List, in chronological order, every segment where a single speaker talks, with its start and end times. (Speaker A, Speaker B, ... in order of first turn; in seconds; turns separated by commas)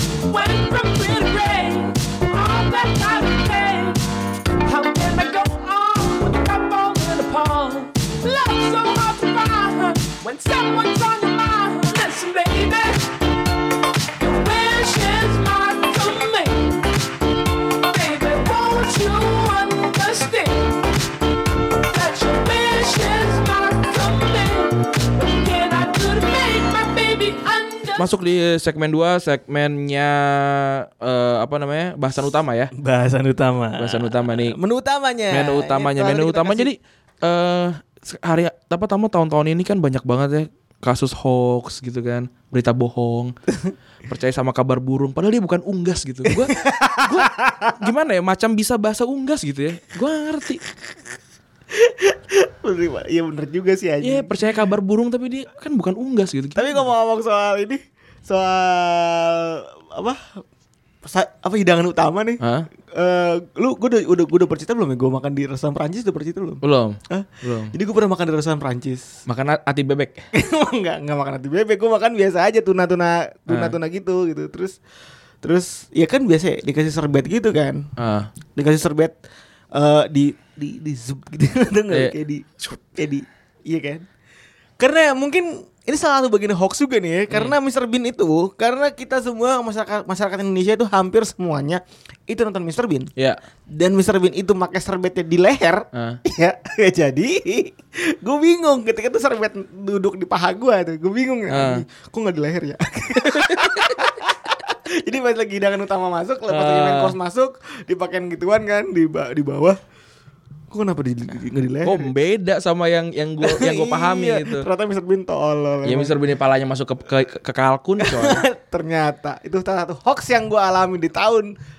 Speaker A: 0.2-4.0, Speaker A: 4.6-13.1, Speaker A: 14.2-16.8, Speaker A: 17.8-20.8, Speaker A: 21.9-28.1, Speaker B: 28.0-32.7, Speaker C: 32.8-36.7, Speaker B: 33.8-34.6, Speaker B: 35.3-43.3, Speaker B: 44.1-50.6, Speaker C: 46.3-47.8, Speaker C: 51.7-54.3, Speaker B: 54.0-56.9, Speaker C: 56.6-60.4, Speaker C: 61.0-62.4, Speaker B: 62.4-62.7, Speaker C: 63.0-69.1, Speaker B: 66.6-67.7, Speaker B: 69.3-70.2, Speaker C: 70.3-74.8, Speaker B: 73.5-73.8, Speaker C: 75.4-77.8, Speaker B: 78.0-78.3, Speaker C: 78.5-79.2, Speaker C: 79.8-84.1, Speaker B: 81.9-82.8, Speaker C: 84.8-93.1, Speaker C: 93.7-109.8, Speaker B: 95.9-96.2, Speaker B: 101.5-101.8, Speaker B: 103.2-103.9, Speaker B: 106.5-107.2, Speaker C: 110.7-112.1, Speaker B: 111.8-114.7, Speaker C: 113.4-116.2, Speaker B: 115.8-118.4, Speaker C: 118.0-121.5